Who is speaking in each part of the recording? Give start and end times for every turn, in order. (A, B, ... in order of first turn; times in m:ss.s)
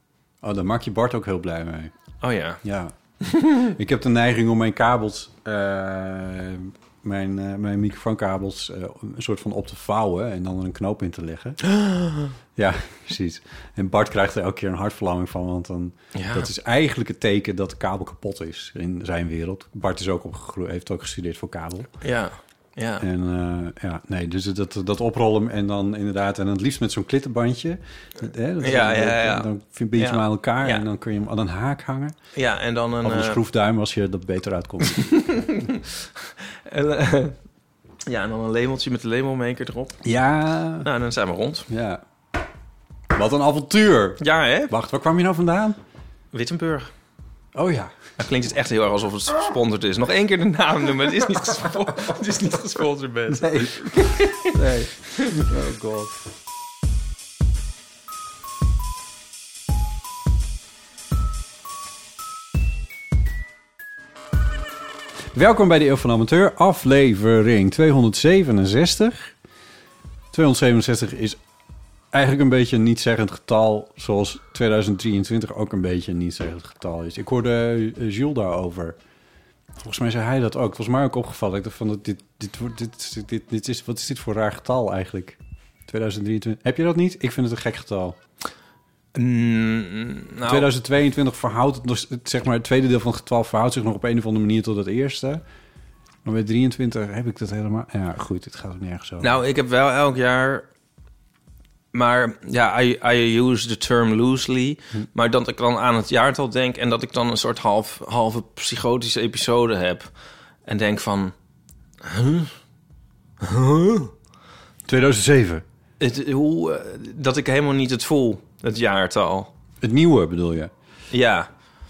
0:00.4-0:11.8 A
0:02.2-0:02.6 B
0:11.7-0:12.3 B
0:12.6-0:21.9 A
0:16.1-0:16.5 B
0:22.0-0:23.0 B
0:23.0-0:32.2 A
0:28.6-0:30.8 B
0:32.3-0:33.4 B
0:33.0-0:35.2 A
0:34.9-0:37.4 B
0:38.0-0:40.0 B
0:40.0-0:40.9 A
0:40.8-0:41.7 B
0:41.7-0:42.0 A
0:43.1-0:45.8 A
0:44.2-0:44.7 B
0:46.3-0:46.9 B
0:47.5-0:47.9 A
0:48.2-0:54.5 B
0:53.3-0:56.2 A
1:05.3-1:09.3 A
1:10.3-1:11.4 A
1:12.1-1:19.0 A
1:19.8-1:28.2 A
1:29.1-1:30.7 B
1:30.4-1:35.4 A
1:36.2-1:39.3 A
1:39.2-1:40.7 B
1:41.9-1:51.3 B
1:52.0-1:52.5 B
1:53.4-1:54.1 B
1:54.8-1:55.6 A
1:56.0-1:59.5 B
1:59.8-2:00.7 A
2:01.1-2:01.5 B